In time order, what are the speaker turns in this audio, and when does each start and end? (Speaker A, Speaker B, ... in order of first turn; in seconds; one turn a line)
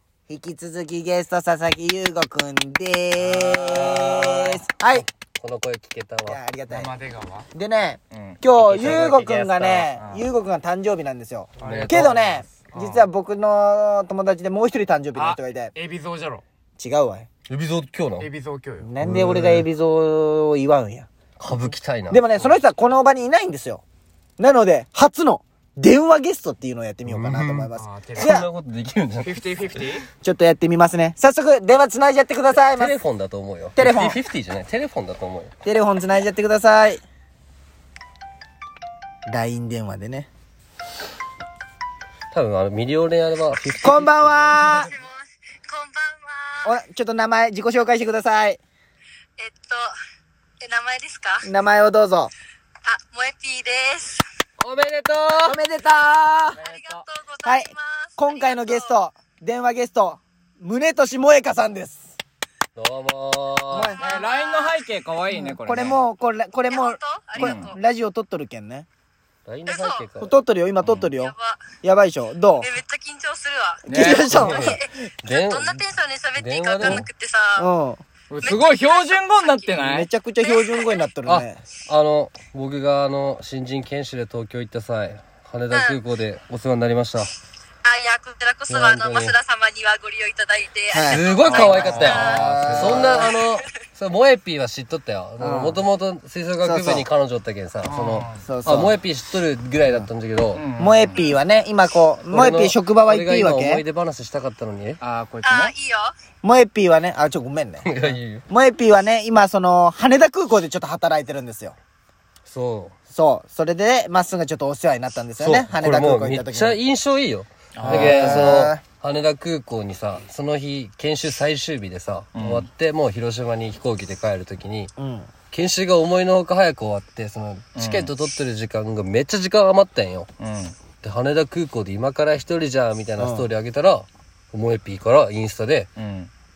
Speaker A: 0.3-5.1
Speaker B: 3.2-4.5
Speaker C: 3.7-4.6
Speaker C: 5.4-6.4
Speaker A: 6.2-6.9
Speaker B: 6.7-7.5
Speaker A: 7.5-15.7
Speaker B: 8.1-9.1
Speaker C: 8.6-9.9
Speaker B: 9.9-10.2
Speaker B: 11.6-13.0
Speaker C: 11.7-12.1
Speaker B: 15.1-16.4
Speaker A: 16.8-17.3
Speaker C: 17.5-18.3
Speaker B: 18.2-18.9
Speaker A: 18.8-23.8
Speaker C: 19.0-19.6
Speaker C: 21.4-22.3
Speaker A: 24.4-28.5
Speaker C: 27.1-29.3
Speaker B: 27.7-28.4
Speaker B: 29.2-30.0
Speaker A: 30.2-32.9
Speaker C: 32.8-35.5
Speaker A: 33.7-34.2
Speaker A: 35.6-37.0
Speaker A: 39.2-40.3
Speaker C: 42.3-44.6
Speaker A: 43.8-44.9
Speaker D: 44.5-46.7
Speaker A: 46.6-48.6
Speaker D: 49.4-49.9
Speaker D: 50.6-51.5
Speaker A: 51.4-52.3
Speaker D: 52.8-54.2
Speaker C: 54.6-55.6
Speaker A: 55.4-56.6
Speaker B: 56.5-57.0
Speaker D: 56.6-59.0
Speaker A: 57.4-62.1
Speaker C: 62.8-63.9
Speaker A: 63.7-64.0
Speaker D: 64.0-64.8
Speaker B: 64.0-66.0
Speaker A: 65.3-68.9
Speaker D: 66.7-67.8
Speaker B: 67.4-67.7
Speaker C: 69.5-70.3
Speaker D: 69.7-70.1
Speaker A: 70.2-72.7
Speaker D: 71.2-71.6
Speaker D: 72.6-77.7
Speaker A: 73.8-74.8
Speaker B: 73.9-74.3
Speaker C: 74.3-75.8
Speaker C: 76.3-77.1
Speaker A: 77.5-78.0
Speaker B: 78.3-80.1
Speaker D: 78.4-79.7
Speaker A: 79.8-81.6
Speaker D: 80.4-81.0
Speaker C: 81.2-87.3
Speaker D: 85.7-86.0
Speaker D: 87.8-92.4
Speaker C: 88.7-89.4
Speaker A: 90.9-93.4
Speaker C: 91.1-100.7
Speaker B: 91.4-93.2
Speaker A: 95.4-95.8
Speaker A: 96.6-97.0
Speaker B: 97.8-98.4
Speaker A: 98.3-98.9
Speaker B: 100.5-101.3
Speaker A: 100.8-103.8
Speaker C: 102.3-105.0
Speaker B: 105.0-105.7
Speaker D: 105.4-106.1
Speaker A: 106.4-107.9
Speaker C: 107.8-108.4
Speaker A: 108.5-111.8
Speaker C: 112.5-112.9
Speaker A: 113.1-116.8
Speaker C: 115.4-124.9
Speaker B: 117.7-118.6
Speaker A: 117.8-118.8
Speaker B: 122.3-122.7
Speaker A: 125.0-125.3
Speaker C: 125.5-130.3
Speaker B: 127.7-128.1
Speaker B: 130.4-130.8
Speaker C: 131.0-135.9
Speaker A: 133.2-133.4
Speaker B: 135.9-136.3